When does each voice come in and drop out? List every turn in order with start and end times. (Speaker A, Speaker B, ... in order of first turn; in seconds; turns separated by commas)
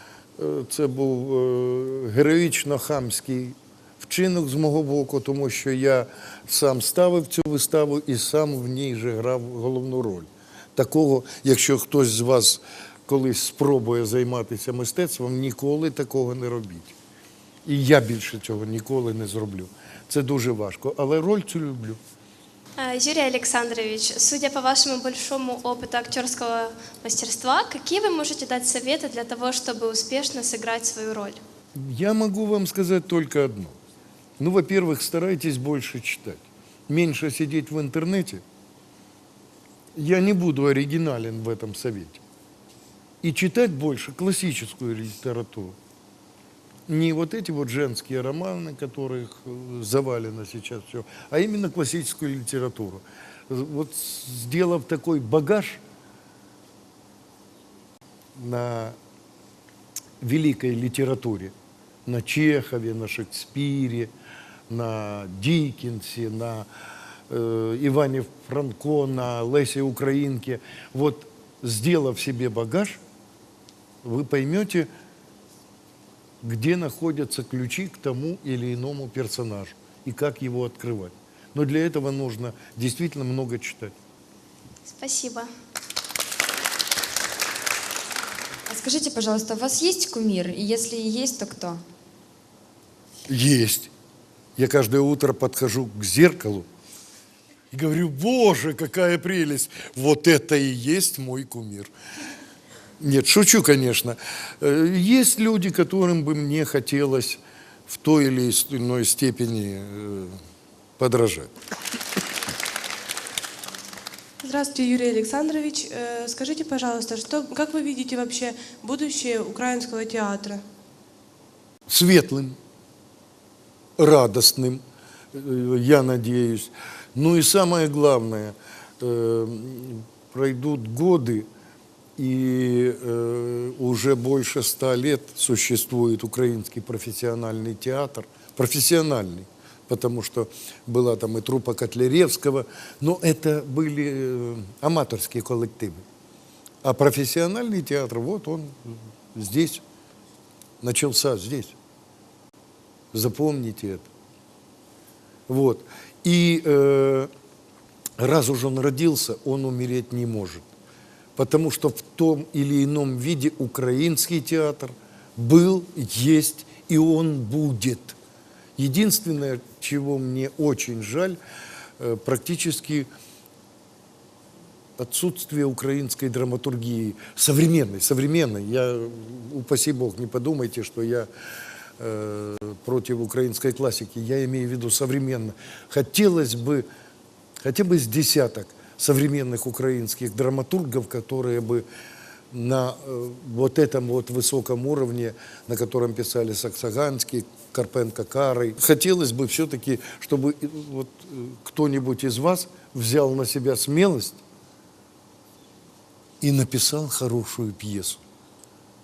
Speaker A: 0.4-16.9, Speaker A: 17.6-22.0, Speaker B: 22.8-31.4, Speaker A: 31.8-33.8, Speaker A: 34.4-38.4, Speaker A: 40.0-42.2, Speaker A: 43.2-45.8, Speaker A: 46.9-55.8, Speaker A: 58.4-59.0, Speaker A: 60.2-61.5, Speaker A: 62.1-64.1, Speaker A: 64.7-66.7, Speaker A: 67.3-73.0, Speaker A: 74.0-74.9, Speaker A: 76.4-83.9, Speaker B: 84.9-85.5, Speaker C: 88.7-91.8, Speaker A: 93.3-93.9, Speaker A: 94.6-96.7, Speaker A: 97.7-101.9, Speaker A: 103.0-110.4, Speaker A: 111.0-111.5, Speaker D: 114.4-120.6, Speaker A: 121.9-122.6, Speaker A: 124.0-124.8, Speaker A: 125.3-131.5, Speaker A: 132.2-146.1, Speaker A: 146.8-149.8, Speaker A: 150.8-151.8, Speaker A: 153.1-154.1, Speaker A: 155.5-157.3, Speaker A: 158.2-160.7, Speaker A: 161.4-168.2, Speaker A: 168.8-171.4, Speaker A: 172.0-173.1, Speaker A: 175.0-181.3, Speaker A: 182.0-186.9, Speaker A: 187.6-191.8, Speaker A: 192.5-204.4, Speaker A: 206.4-208.2